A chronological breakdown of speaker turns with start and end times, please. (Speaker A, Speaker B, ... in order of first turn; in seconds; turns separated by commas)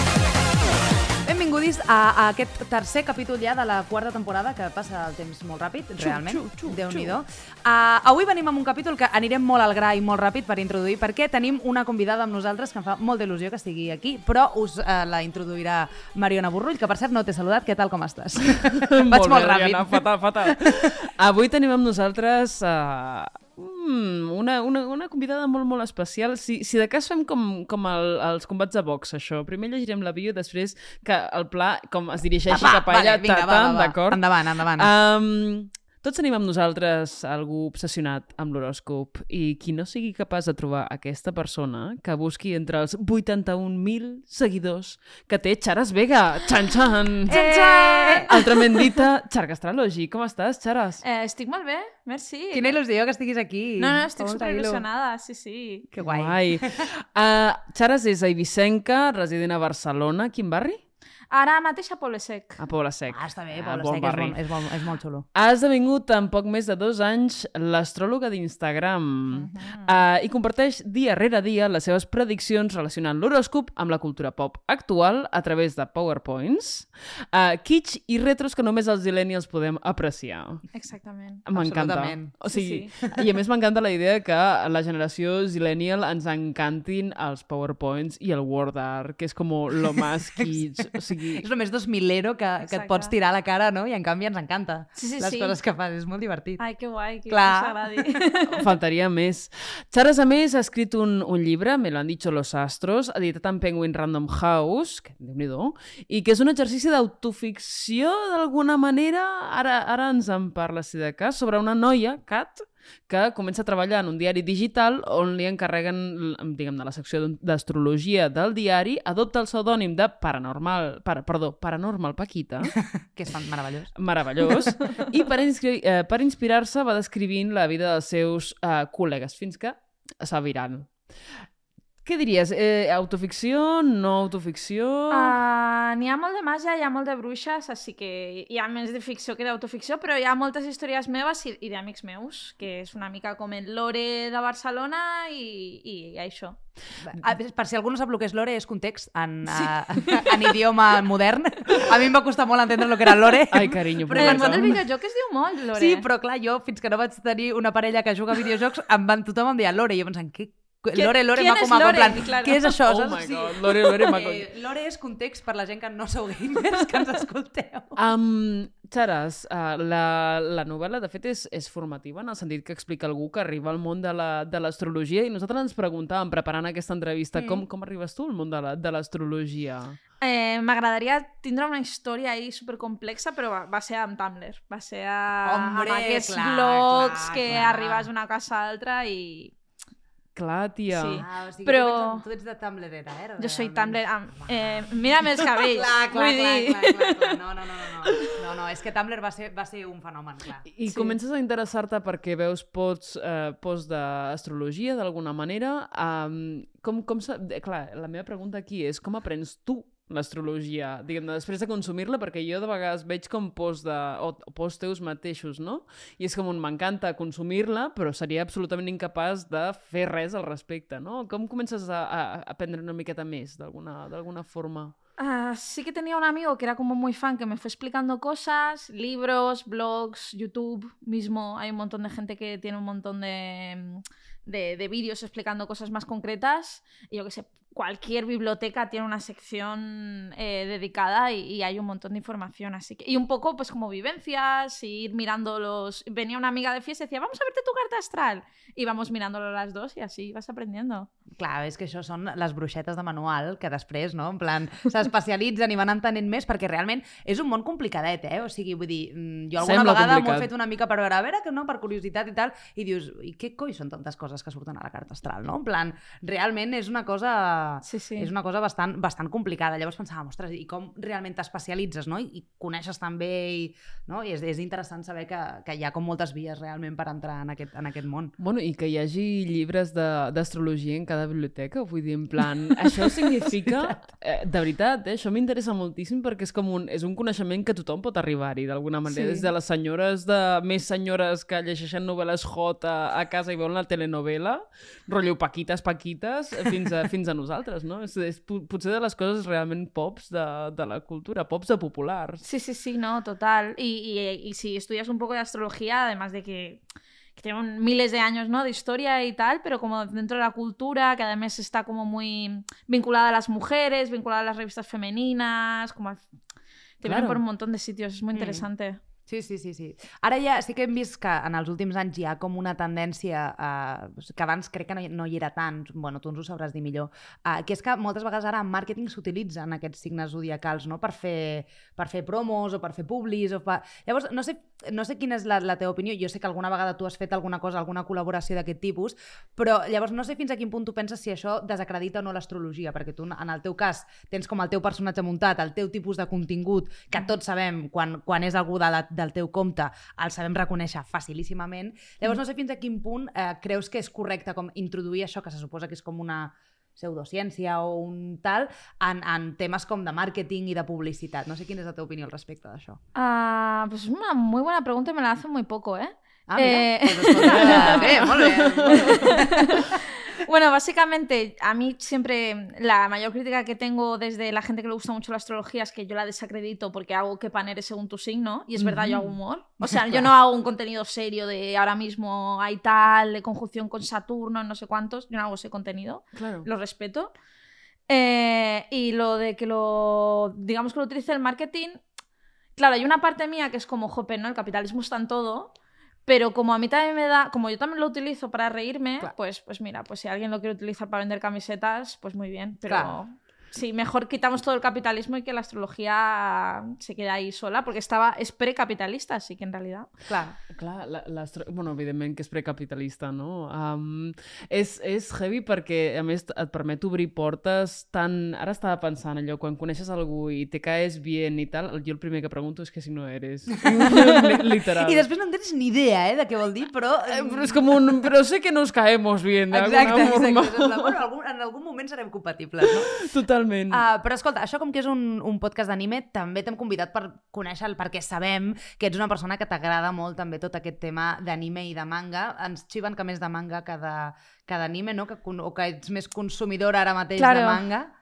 Speaker A: 1.2-20.9, Speaker B: 6.0-7.2, Speaker B: 18.6-47.4, Speaker A: 32.5-34.9, Speaker A: 47.3-48.5, Speaker C: 47.3-48.3, Speaker B: 48.2-51.0, Speaker C: 51.0-52.7, Speaker A: 52.5-54.8, Speaker C: 53.8-55.9, Speaker A: 55.9-56.9, Speaker B: 56.0-60.8, Speaker C: 61.3-62.6, Speaker B: 62.6-64.4, Speaker A: 63.1-65.2, Speaker B: 65.3-80.7, Speaker C: 69.3-70.0, Speaker C: 80.7-81.4, Speaker B: 81.5-91.5, Speaker A: 81.5-82.3, Speaker C: 82.5-82.9, Speaker A: 91.4-96.6, Speaker C: 92.6-93.1, Speaker C: 94.9-95.5, Speaker C: 96.6-98.6, Speaker A: 97.3-98.2, Speaker B: 98.5-122.7, Speaker A: 122.8-123.9, Speaker B: 124.0-130.9, Speaker B: 132.0-135.3, Speaker C: 135.1-146.6, Speaker A: 147.0-154.8, Speaker C: 149.5-150.4, Speaker B: 153.5-154.8, Speaker C: 154.1-156.1, Speaker A: 155.7-168.0, Speaker C: 160.9-162.7, Speaker B: 162.8-164.5, Speaker B: 167.9-180.0, Speaker A: 177.3-177.6, Speaker C: 180.2-189.5, Speaker A: 185.4-188.1, Speaker B: 190.3-191.2, Speaker C: 190.9-192.2, Speaker A: 191.2-200.6, Speaker C: 193.4-197.4, Speaker B: 200.7-224.9, Speaker C: 200.9-201.2, Speaker C: 225.2-251.1, Speaker A: 251.3-278.3, Speaker B: 259.6-260.5, Speaker C: 267.8-268.3, Speaker B: 278.4-302.4, Speaker A: 283.0-283.9, Speaker A: 289.1-289.5, Speaker C: 302.4-306.8, Speaker C: 307.4-316.2, Speaker C: 317.0-319.0, Speaker B: 317.0-317.4, Speaker A: 318.3-318.6, Speaker A: 319.3-363.0, Speaker C: 363.1-387.3, Speaker A: 366.5-370.0, Speaker B: 367.4-369.3, Speaker B: 378.8-379.4, Speaker A: 379.8-380.2, Speaker B: 386.3-386.7, Speaker C: 388.1-392.0, Speaker C: 392.8-395.7, Speaker C: 396.2-410.1, Speaker A: 402.9-403.2, Speaker A: 410.2-410.6, Speaker B: 410.7-425.2, Speaker A: 423.9-428.3, Speaker B: 427.3-431.2, Speaker A: 429.7-433.1, Speaker B: 432.8-434.0, Speaker A: 433.9-448.1, Speaker C: 447.4-447.8